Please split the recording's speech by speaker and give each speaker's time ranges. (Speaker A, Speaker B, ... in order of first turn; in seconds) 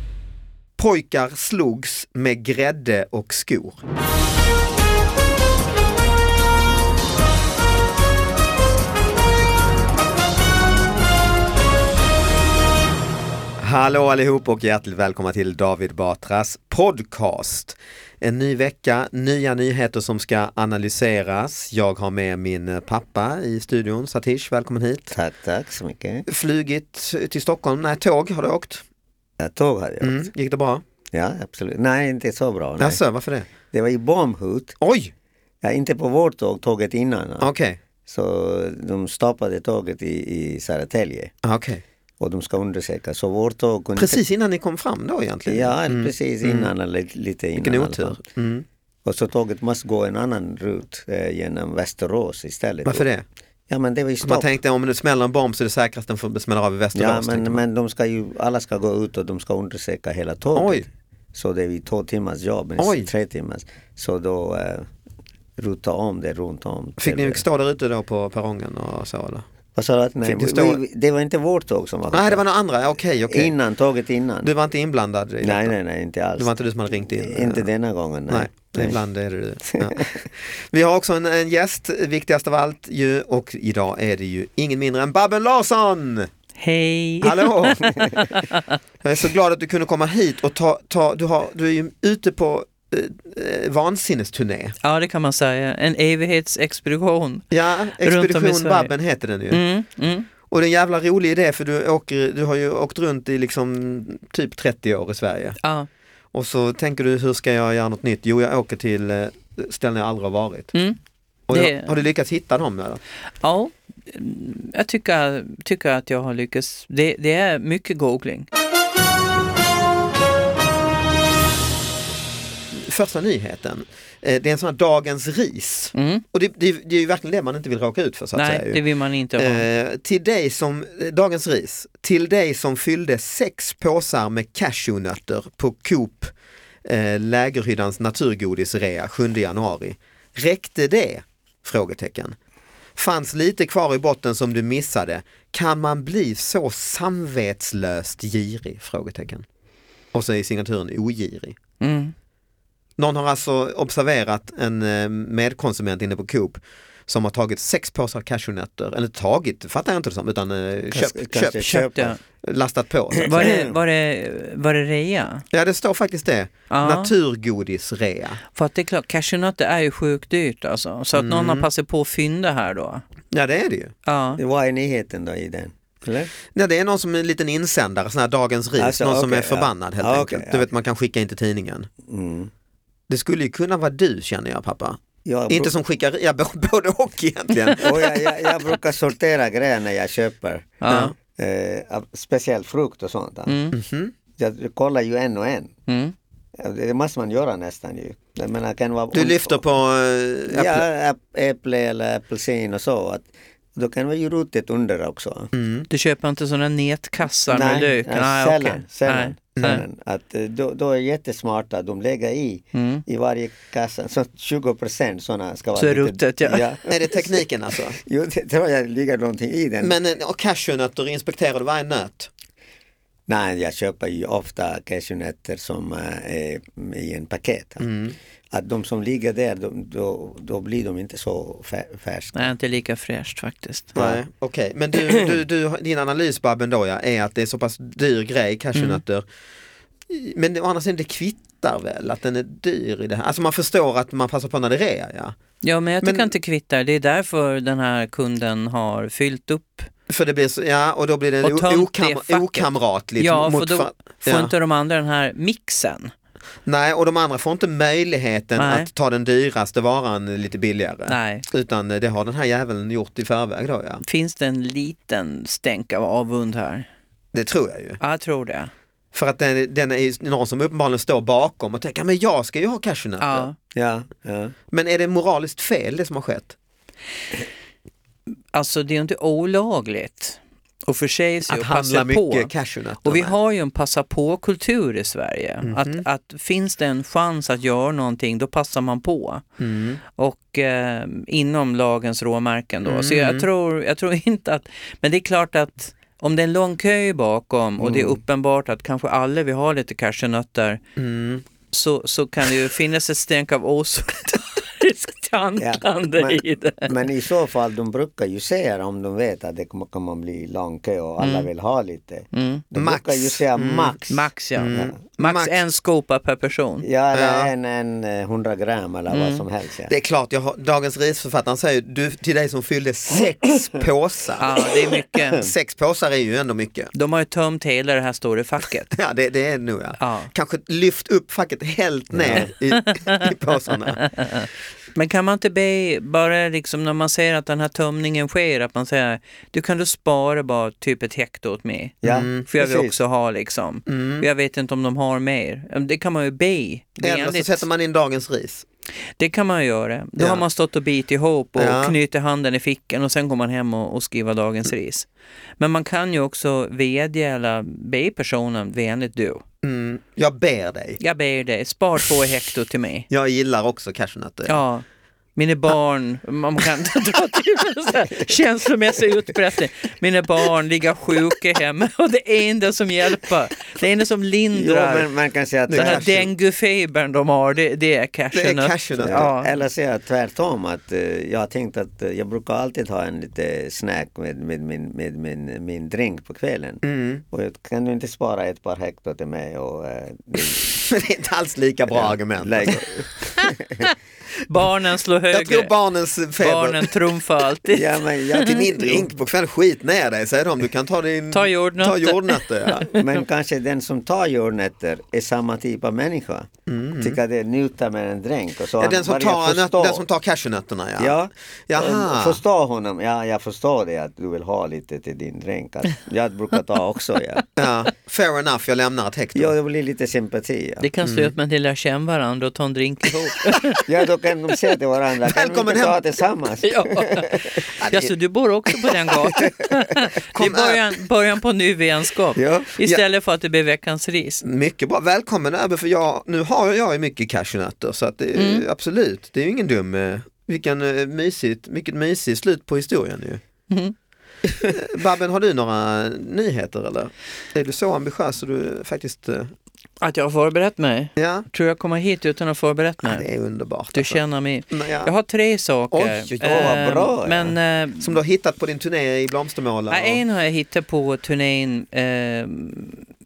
Speaker A: 0.8-3.8, 13.6-25.1, 26.3-28.8, 30.0-30.8, 32.8-33.5, 34.8-35.1, 37.4-37.8, 41.4-41.8, 44.0-46.7, 47.6-48.6, 52.8-53.2, 54.2-57.6, 60.5-60.9, 62.8-63.1, 67.0-69.4, 70.2-70.8, 72.1-73.5, 74.4-75.7, 76.4-77.7, 78.3-86.3, 87.2-88.0, 89.0-94.7, 97.5-99.6, 100.5-105.6, 106.3-110.7, 111.5-113.0, 122.7-128.8, 129.4-136.3, 136.8-142.3, 142.9-149.4, 150.1-151.6, 153.0-161.8, 162.4-163.6, 165.5-168.4, 171.1-171.7, 173.3-173.9, 176.5-181.9, 183.1-188.5, 190.9-191.1, 193.7-194.1, 199.1-200.8, 205.5-205.9, 209.6-209.8, 216.9-218.0, 219.8-222.3, 227.8-228.2, 233.9-239.2, 240.1-245.4, 246.0-246.3, 250.1-254.5, 256.6-264.0, 267.3-268.0, 269.1-273.5, 274.7-276.5, 281.5-283.3, 285.6-286.0, 289.6-290.0, 292.8-293.5, 301.0-301.4, 312.7-314.0, 314.6-315.5, 317.1-317.5, 319.9-324.5, 325.3-326.9, 328.9-334.0, 342.1-342.4, 343.9-344.2, 347.0-348.6, 350.2-350.4, 351.6-351.9, 359.6-361.0, 363.1-364.6, 375.7-376.3, 378.3-379.3, 386.8-387.2, 390.8-392.9, 395.3-396.9, 398.4-402.9, 406.7-407.2, 408.8-411.1, 411.7-412.4, 417.6-419.5, 421.0-421.3, 425.2-426.0, 427.8-428.1, 430.3-430.8, 434.4-443.4, 444.6-449.5, 451.1-451.4, 453.0-455.1, 455.9-456.8, 458.0-460.2
Speaker B: 25.1-26.2, 29.4-30.3, 31.1-33.0, 33.7-34.7, 35.6-37.5, 38.0-41.3, 42.2-44.2, 45.5-48.2, 49.0-53.0, 53.7-54.5, 56.9-64.9, 65.6-67.4, 69.8-72.4, 73.3-74.5, 75.4-79.0, 79.6-80.2, 160.9-162.1, 163.2-163.7, 174.4-176.3, 178.8-180.7, 182.1-182.5, 185.2-185.7, 187.8-193.6, 194.4-195.7, 196.6-199.6, 200.5-205.5, 207.5-219.9, 223.3-227.9, 228.5-232.5, 233.9-234.2, 273.7-274.5, 297.8-298.2, 305.6-314.9, 316.8-319.9, 332.1-332.5, 342.0-342.9, 374.5-376.1, 379.0-390.8, 391.9-393.9, 397.7-399.1, 402.9-410.0, 411.0-417.5, 419.3-420.9, 423.8-427.6, 429.2-429.7, 432.4-432.7, 456.4-457.5
Speaker C: 86.6-88.8, 94.8-97.5, 98.0-98.9, 99.5-100.3, 105.6-105.9, 110.7-111.0, 111.5-112.0, 113.4-118.5, 125.9-126.2, 128.3-129.6, 151.8-152.1, 161.6-162.2, 163.2-165.4, 166.7-167.1, 168.5-173.0, 174.1-174.4, 190.8-191.1, 193.5-193.8, 195.9-196.1, 205.9-209.8, 212.7-213.0, 215.8-216.6, 232.3-233.9, 238.7-239.0, 245.6-249.9, 251.4-252.7, 253.2-256.1, 258.6-258.9, 261.1-261.4, 264.0-266.9, 268.0-268.7, 273.2-273.5, 278.5-282.5, 283.0-289.4, 290.1-300.8, 301.7-306.9, 311.2-311.5, 312.3-312.6, 314.1-316.9, 319.1-319.4, 324.4-325.5, 326.9-328.9, 330.0-330.3, 332.3-333.3, 334.0-347.6, 349.2-355.1, 355.6-359.4, 361.0-363.1, 364.5-364.8, 365.4-375.1, 375.7-379.5, 394.5-395.7, 396.4-398.6, 401.3-403.2, 420.8-423.9, 426.6-434.4, 438.4-438.6, 443.7-443.9, 450.0-453.2, 453.9-458.2, 459.9-463.0